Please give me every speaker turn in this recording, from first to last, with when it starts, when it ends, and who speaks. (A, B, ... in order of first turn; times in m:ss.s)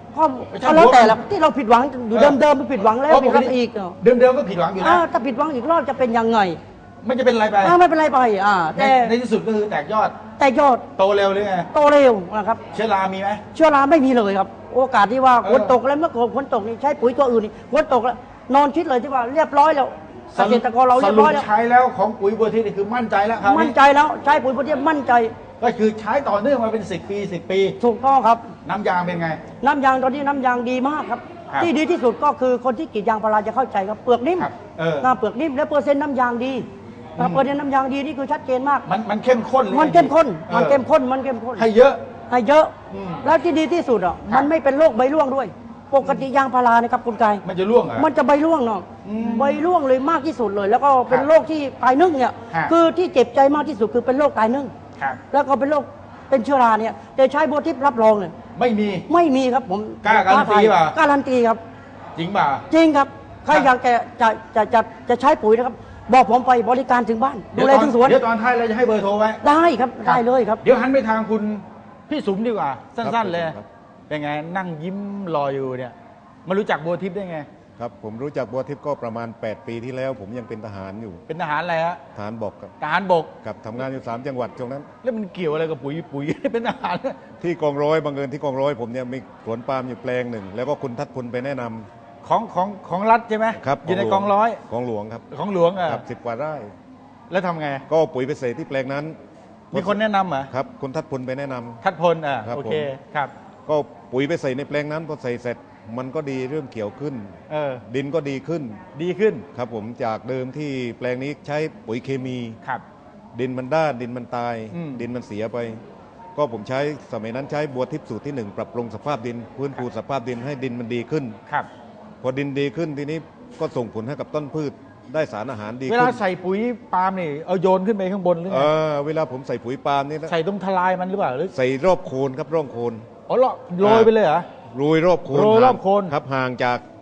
0:00.1-0:04.0 A
0:00.5-0:01.2 B
0:02.1-0:02.4 B
0:03.1-0:05.0 B
0:04.8-0:06.6 A
0:07.0-0:07.8 B
0:07.6-0:09.1 A
0:08.8-0:10.2 B
0:10.4-0:10.9 A
0:11.0-0:11.7 B
0:11.7-0:12.6 A
0:12.7-0:13.4 B
0:13.5-0:21.5 A
0:15.4-0:15.7 B
0:20.3-0:23.7 B
0:23.4-0:25.3 A
0:25.6-0:27.8 B
0:27.8-0:28.5 A
0:28.6-0:29.4 B
0:29.6-0:34.5 A
0:34.4-0:35.1 B
0:35.0-0:38.8 A
0:37.2-0:37.4 B
0:38.8-0:40.8 B
0:39.7-0:41.6 A
0:41.6-0:42.0 B
0:42.3-0:47.4 A
0:42.9-0:43.2 B
0:47.4-0:48.1 B
0:48.0-0:54.7 A
0:49.0-0:49.6 B
0:55.3-0:58.3 A
0:58.5-0:59.1 B
0:59.1-1:01.6 A
1:00.0-1:01.0 B
1:02.2-1:02.6 B
1:02.7-1:08.2 A
1:07.5-1:09.4 B
1:09.4-1:10.6 A
1:10.0-1:13.6 B
1:13.0-1:13.7 C
1:14.1-1:15.9 B
1:16.4-1:17.5 B
1:17.8-1:21.2 C
1:21.3-1:22.0 B
1:22.1-1:22.7 C
1:22.8-1:23.3 B
1:23.4-1:24.9 C
1:25.0-1:27.2 B
1:27.4-1:31.9 C
1:32.2-1:34.6 B
1:33.6-1:35.2 C
1:35.3-1:36.0 B
1:35.8-1:36.7 C
1:37.3-1:37.8 B
1:37.9-1:39.2 C
1:39.7-1:40.0 C
1:39.7-1:40.5 B
1:40.5-1:41.8 C
1:41.8-1:43.3 B
1:42.4-1:42.9 C
1:43.7-1:47.3 C
1:47.5-1:47.8 B
1:47.9-1:48.8 C
1:48.9-1:49.5 B
1:49.5-1:52.6 C
1:53.3-1:55.8 C
1:54.7-1:55.0 B
1:56.3-2:01.4 C
2:02.2-2:06.2 C
2:05.9-2:08.7 B
2:08.5-2:10.3 C
2:10.3-2:11.5 B
2:11.5-2:13.1 C
2:13.3-2:14.5 B
2:13.8-2:14.1 C
2:14.7-2:16.8 C
2:15.3-2:16.1 B